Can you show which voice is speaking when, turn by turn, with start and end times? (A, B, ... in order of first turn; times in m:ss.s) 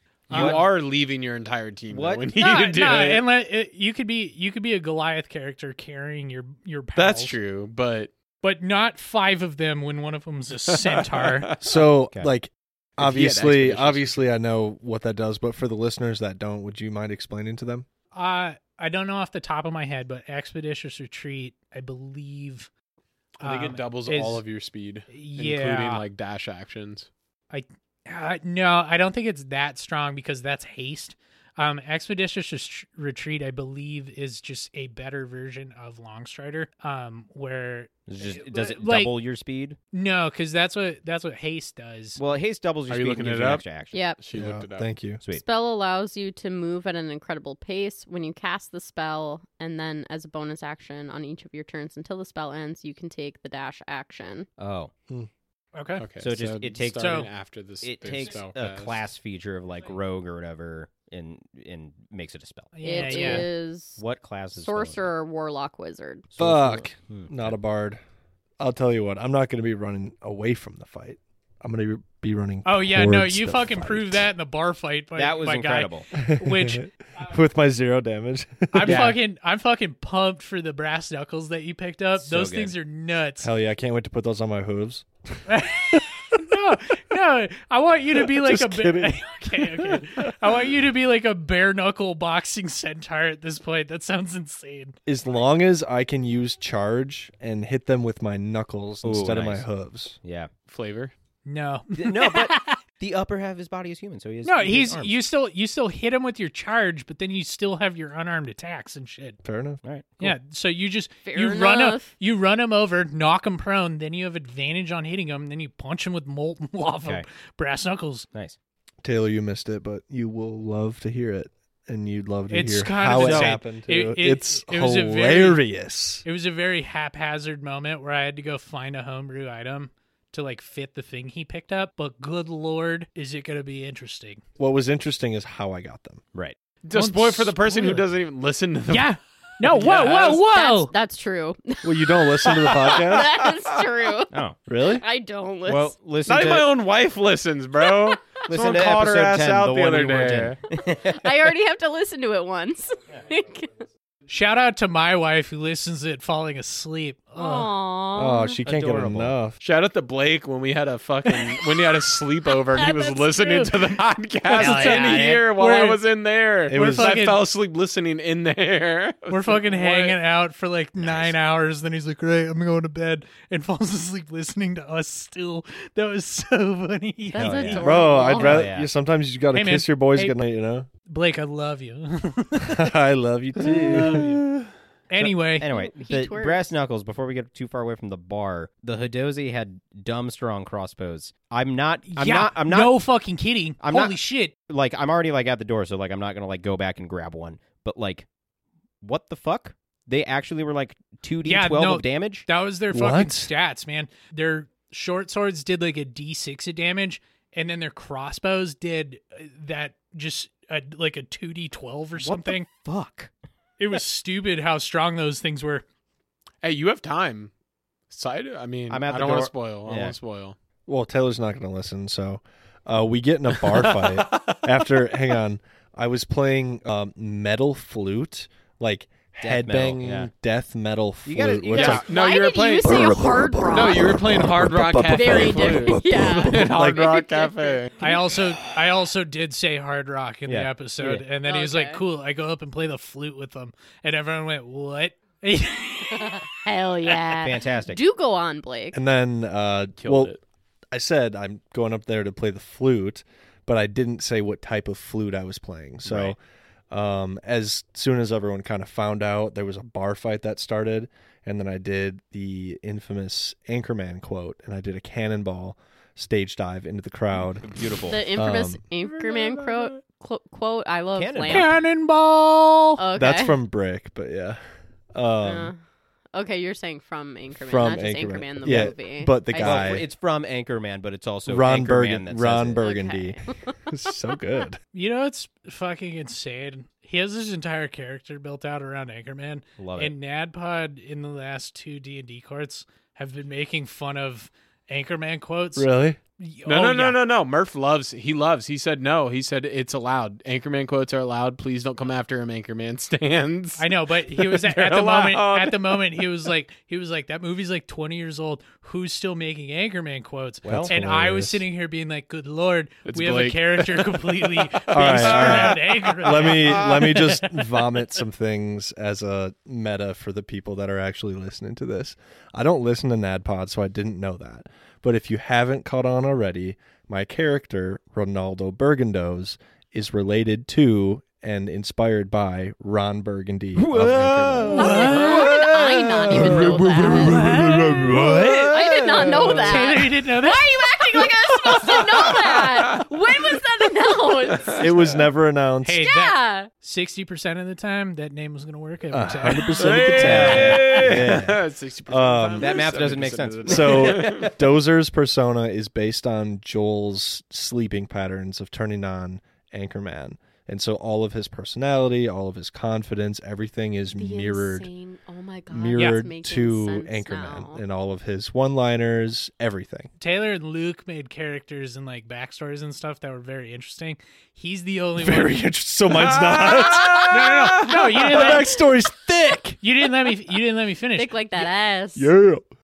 0:00.3-0:03.2 A
0:00.3-0:00.6 B
0:00.3-0:00.6 C
0:01.9-0:02.3 C
0:02.4-0:07.4 B
0:06.9-0:08.1 A
0:08.4-0:11.5 B
0:11.0-0:11.6 A
0:11.6-0:17.8 D
0:13.0-0:14.2 A
0:18.1-0:22.7 B
0:23.4-0:24.4 B
0:23.4-0:27.1 A
0:25.1-0:26.0 B
0:27.5-0:39.1 B
0:38.1-0:39.8 C
0:39.9-0:42.2 B
0:42.2-0:44.0 C
0:42.9-0:43.6 A
0:43.9-0:44.2 E
0:44.2-0:44.9 A
0:44.3-0:45.2 D
0:45.3-0:54.5 E
0:54.6-0:54.9 C
0:55.7-0:56.0 B
0:56.0-0:59.0 A
0:56.2-0:57.3 C
0:57.0-0:57.3 B
0:57.8-1:03.5 C
1:02.7-1:03.5 B
1:02.8-1:04.0 E
1:04.0-1:05.0 C
1:04.5-1:06.3 E
1:06.3-1:07.5 C
1:06.4-1:08.0 D
1:08.6-1:14.3 D
1:12.6-1:16.9 B
1:15.2-1:16.1 C
1:16.1-1:19.1 D
1:18.7-1:23.5 B
1:18.8-1:19.1 A
1:22.2-1:22.7 C
1:23.4-1:26.0 D
1:25.5-1:35.0 B
1:28.1-1:30.5 D
1:35.0-1:40.2 D
1:39.0-1:39.6 C
1:40.2-1:40.5 C
1:40.7-1:41.1 A
1:41.4-1:42.8 B
1:41.9-1:45.2 C
1:44.4-1:49.4 B
1:49.4-1:49.8 D
1:49.8-1:50.4 C
1:50.2-1:58.3 B
1:51.2-1:52.1 E
1:59.0-2:06.2 D
2:02.5-2:05.6 B
2:03.1-2:03.5 C
2:06.2-2:14.4 B
2:14.6-2:16.2 D
2:16.8-2:19.1 A
2:16.9-2:18.0 B
2:18.9-2:20.9 B
2:19.7-2:20.4 A
2:19.9-2:25.9 E
2:21.8-2:23.3 D
2:22.4-2:23.5 A
2:24.3-2:24.6 C
2:24.6-2:25.0 D
2:25.6-2:26.7 C
2:26.2-2:30.6 A
2:27.8-2:28.4 E
2:28.5-2:31.2 C
2:30.9-2:33.8 E
2:34.3-2:37.7 B
2:37.4-2:38.6 E
2:38.1-2:39.6 D
2:38.7-2:39.3 C
2:39.6-2:50.2 A
2:42.8-2:43.7 E
2:44.5-2:46.0 B
2:44.6-2:44.9 C
2:46.7-2:47.2 D
2:46.7-2:47.4 B
2:49.3-2:57.9 B
2:51.0-2:51.3 C
2:57.3-2:58.7 E
2:57.4-2:58.9 C
2:57.8-3:00.9 D
2:59.5-3:00.4 B
3:01.0-3:02.9 B
3:02.6-3:04.7 D
3:03.6-3:04.4 B
3:05.1-3:05.7 B
3:05.2-3:13.0 C
3:05.6-3:06.6 E
3:12.1-3:14.5 B
3:13.8-3:18.3 C
3:19.0-3:22.4 C
3:21.4-3:32.7 B
3:22.9-3:23.5 D
3:32.2-3:33.3 C
3:33.8-3:35.8 B
3:36.6-3:37.5 A
3:38.1-3:40.6 A
3:38.9-3:40.2 C
3:40.9-3:52.0 D
3:43.6-3:44.7 A
3:49.4-3:50.3 C
3:51.2-3:52.0 C
3:51.7-3:54.2 E
3:51.7-3:58.0 A
3:52.8-3:57.1 D
3:55.1-3:58.2 E
3:58.0-4:06.5 B
4:00.5-4:01.2 C
4:01.4-4:02.0 E
4:06.1-4:09.0 E
4:07.0-4:07.4 B
4:07.4-4:08.0 C
4:08.9-4:10.4 D
4:10.0-4:10.4 A
4:10.9-4:16.4 D
4:16.1-4:16.3 C
4:16.9-4:27.7 D
4:27.6-4:28.2 C
4:28.1-4:31.7 E
4:28.3-4:28.8 D
4:31.1-4:31.7 C
4:31.5-4:33.0 B
4:33.0-4:33.6 E
4:33.2-4:34.6 D
4:35.1-4:35.7 D
4:35.4-4:35.8 E
4:36.3-4:40.0 E
4:37.5-4:40.0 D
4:38.6-4:39.0 C
4:39.5-4:42.8 C
4:41.4-4:44.8 D
4:42.8-4:43.8 E
4:44.9-4:57.2 B
4:49.8-4:50.1 C
4:55.8-4:56.2 D
4:56.7-5:06.2 A
5:03.8-5:17.7 B
5:10.6-5:11.6 D
5:13.1-5:17.1 A
5:14.9-5:35.6 D
5:33.8-5:39.5 C
5:34.8-5:35.5 B
5:34.8-5:37.8 E
5:36.2-5:39.8 D
5:38.6-5:44.9 E
5:39.6-5:40.8 B
5:42.2-5:43.0 A
5:44.5-5:45.1 A
5:44.8-5:46.0 D
5:45.8-5:50.7 B
5:46.0-5:46.7 E
5:49.1-5:51.5 D
5:49.8-5:54.5 A
5:50.1-5:51.6 C
5:52.1-5:52.9 D
5:52.6-5:54.5 C
5:53.6-6:04.9 D
6:04.1-6:07.8 E
6:05.7-6:10.1 D
6:05.9-6:06.2 B
6:10.2-6:15.6 B
6:15.2-6:19.8 D
6:16.1-6:17.3 A
6:17.3-6:18.7 B
6:19.8-6:21.4 B
6:21.2-6:22.3 E
6:21.6-6:22.6 D